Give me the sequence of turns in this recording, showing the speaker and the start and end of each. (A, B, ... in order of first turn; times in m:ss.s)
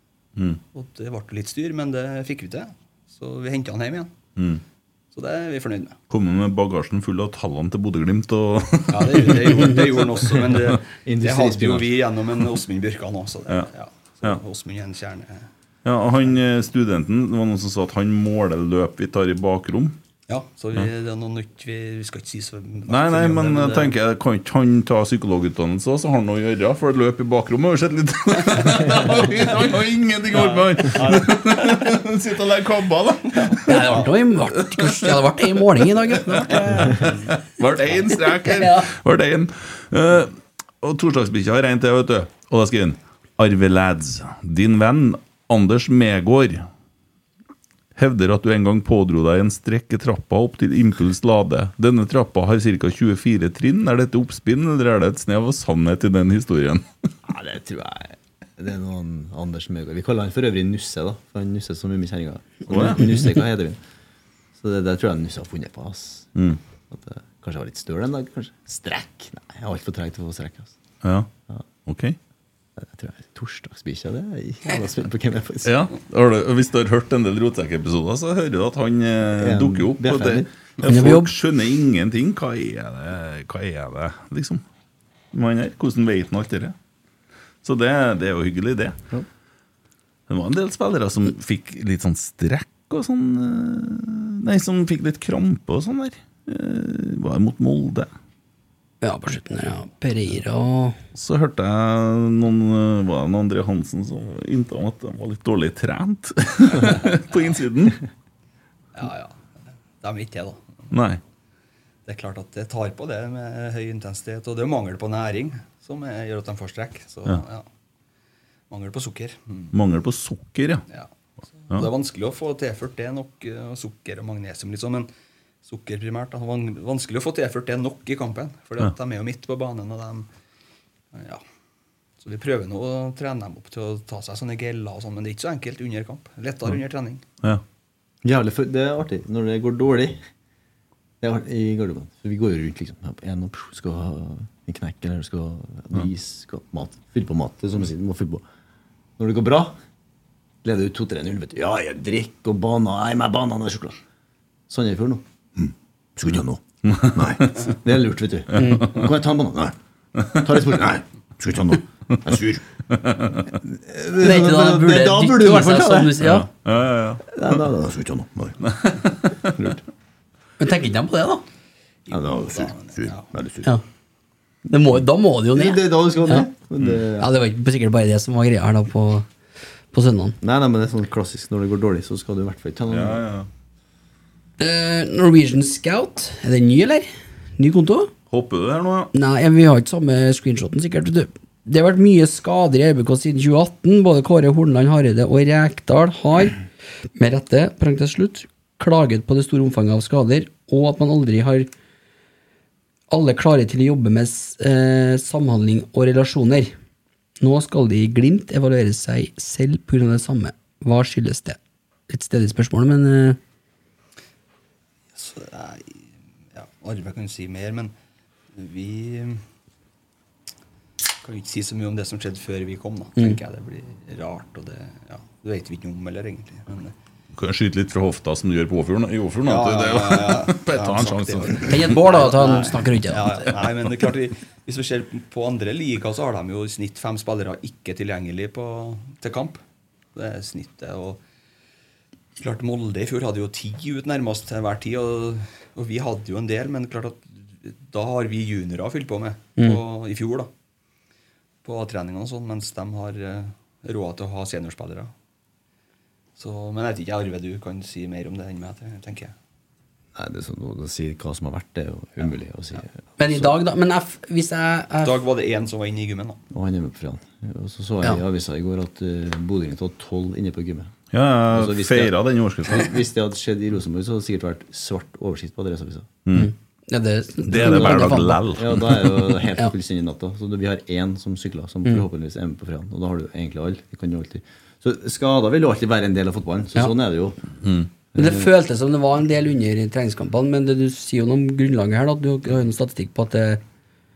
0:00.7-0:04.1 A
0:04.4-0:04.6 B
0:05.1-0:06.0 A
0:06.1-0:10.1 B
0:08.9-0:15.5 A
0:11.0-0:12.0 C
0:15.8-0:20.0 B
0:20.3-0:24.0 A
0:22.9-0:34.0 B
0:30.3-0:32.0 A
0:33.4-0:34.0 A
0:33.7-0:36.9 D
0:34.7-0:35.1 B
0:36.4-0:46.7 B
0:38.4-0:38.9 D
0:48.0-0:56.9 B
0:57.2-1:03.8 C
1:02.7-1:03.1 B
1:04.6-1:06.3 C
1:06.9-1:10.8 C
1:11.0-1:11.3 B
1:11.9-1:12.2 B
1:12.8-1:15.8 C
1:15.6-1:24.6 B
1:19.4-1:20.5 C
1:20.8-1:21.3 D
1:25.3-1:26.8 B
1:27.6-1:29.0 B
1:30.3-1:38.1 B
1:39.0-1:41.0 D
1:41.2-1:48.0 B
1:48.9-1:50.9 A
1:50.9-1:51.2 B
1:52.1-1:57.7 A
1:58.7-1:59.7 A
1:59.7-2:00.8 B
2:01.6-2:05.1 A
2:05.6-2:10.3 A
2:11.1-2:11.4 A
2:12.2-2:17.2 A
2:18.2-2:20.2 C
2:21.2-2:28.4 C
2:29.2-2:29.8 C
2:30.6-2:34.0 C
2:34.7-2:39.8 C
2:36.9-2:37.6 B
2:38.6-2:38.9 D
2:40.4-2:42.6 C
2:42.9-2:43.5 B
2:43.6-2:46.2 C
2:44.2-2:46.5 D
2:46.2-2:47.2 B
2:47.3-2:48.6 C
2:48.7-2:49.7 B
2:50.6-2:51.4 D
2:52.1-2:53.3 A
2:52.1-2:53.7 C
2:54.7-2:56.5 D
2:55.5-2:57.3 C
2:57.2-2:59.3 D
2:59.9-3:00.4 D
3:00.4-3:03.2 C
3:02.9-3:03.5 B
3:04.6-3:08.1 D
3:08.3-3:09.1 B
3:09.1-3:16.6 D
3:17.2-3:21.7 D
3:23.1-3:26.7 D
3:27.4-3:31.6 D
3:32.1-3:33.4 D
3:35.2-3:37.9 A
3:38.5-3:39.4 A
3:41.2-3:46.9 A
3:47.4-3:52.0 B
3:49.4-3:59.6 A
3:51.7-3:53.4 D
4:00.2-4:01.2 A
4:02.4-4:10.5 A
4:11.6-4:15.1 A
4:16.4-4:19.3 A
4:20.1-4:23.5 C
4:23.2-4:25.2 D
4:25.0-4:26.4 A
4:26.5-4:31.0 C
4:31.1-4:32.9 B
4:31.5-4:32.1 C
4:32.7-4:36.1 C
4:36.3-4:36.5 B
4:36.3-4:38.4 D
4:37.5-4:39.1 B
4:37.6-4:47.4 C
4:47.6-4:47.9 B
4:48.2-4:48.5 C
4:48.2-4:53.6 D